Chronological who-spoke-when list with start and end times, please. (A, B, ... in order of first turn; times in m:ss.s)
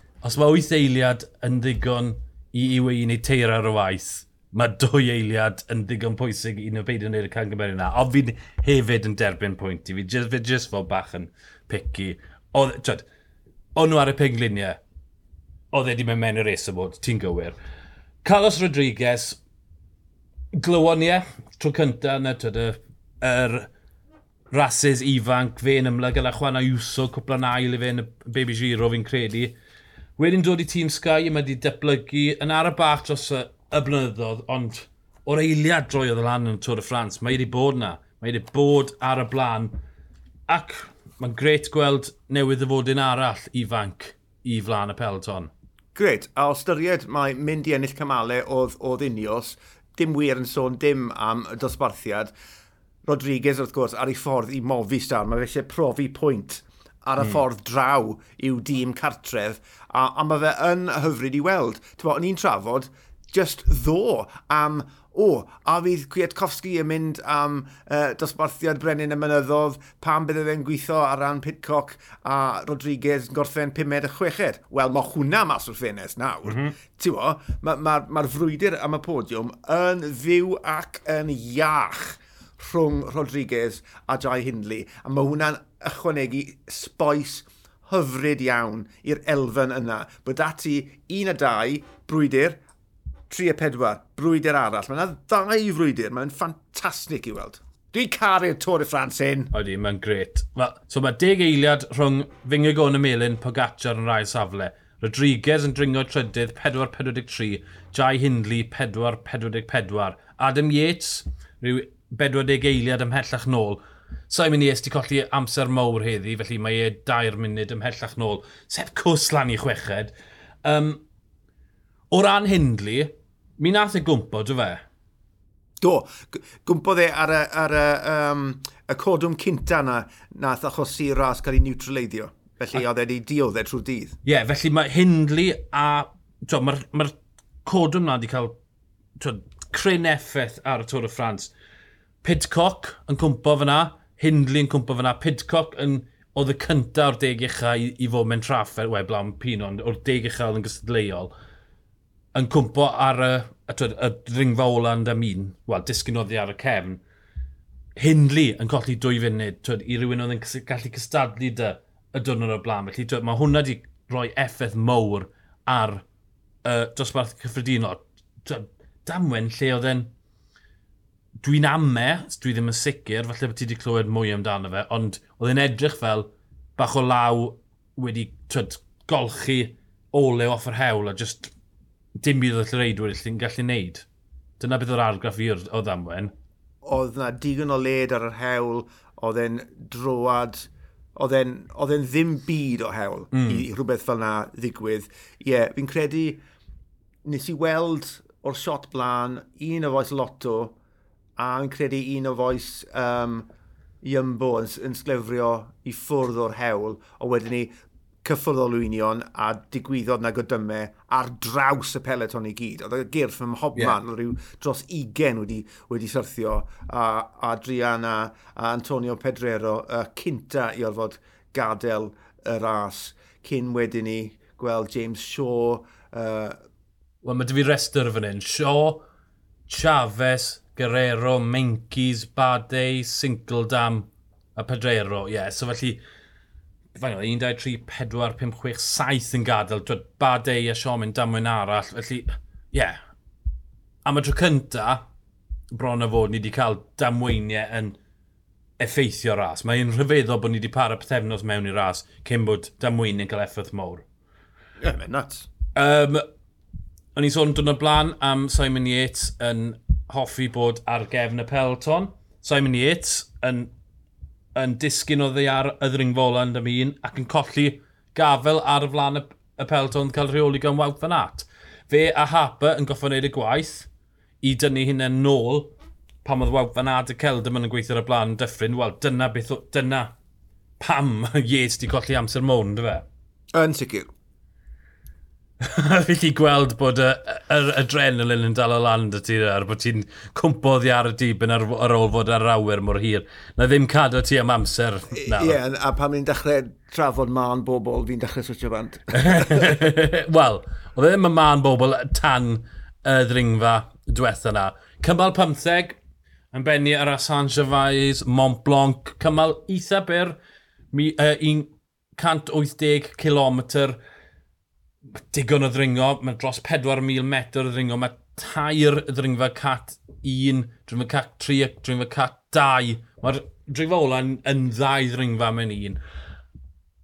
0:00.2-0:13.0 A
0:13.8-0:14.8 A
0:15.7-0:17.6 A
0:18.2-0:19.4 A
0:20.6-0:23.7 A
0:24.5-0:29.5 A
0:30.2-0:39.7 A
0:40.5-0:45.5 A
0:46.0-0:52.3 B
0:53.1-1:32.6 B
1:16.4-1:16.8 A
1:33.3-1:39.5 B
1:39.5-2:00.1 A
2:00.6-2:01.0 A
2:02.1-2:04.8 A
2:05.8-2:14.2 B
2:14.2-2:18.6 A
2:19.2-2:21.5 A
2:22.2-2:31.3 A
2:32.3-2:37.0 A
2:38.0-2:46.0 A
2:46.6-2:50.1 A
2:51.4-3:01.5 A
3:02.2-3:04.1 A
3:04.6-3:06.3 A
3:06.8-3:16.4 B
3:13.3-3:13.6 A
3:17.2-3:20.7 B
3:21.4-3:23.5 B
3:24.0-3:27.7 B
3:28.2-3:46.6 B
3:47.2-3:49.0 A
3:49.7-3:56.0 A
3:57.0-4:03.0 A
4:04.0-4:05.0 A
4:05.7-4:08.0 A
4:08.8-4:14.1 A
4:14.8-4:15.5 B
4:15.8-4:16.2 A
4:17.2-4:23.7 A
4:24.6-4:33.9 A
4:34.4-4:35.7 A
4:36.2-4:40.1 A
4:40.8-4:43.1 A
4:43.5-4:44.1 B
4:45.6-4:55.6 A
4:55.2-4:59.8 B
4:59.2-5:06.0 A
5:06.5-5:10.4 A
5:10.9-5:14.0 A
5:15.3-5:26.0 A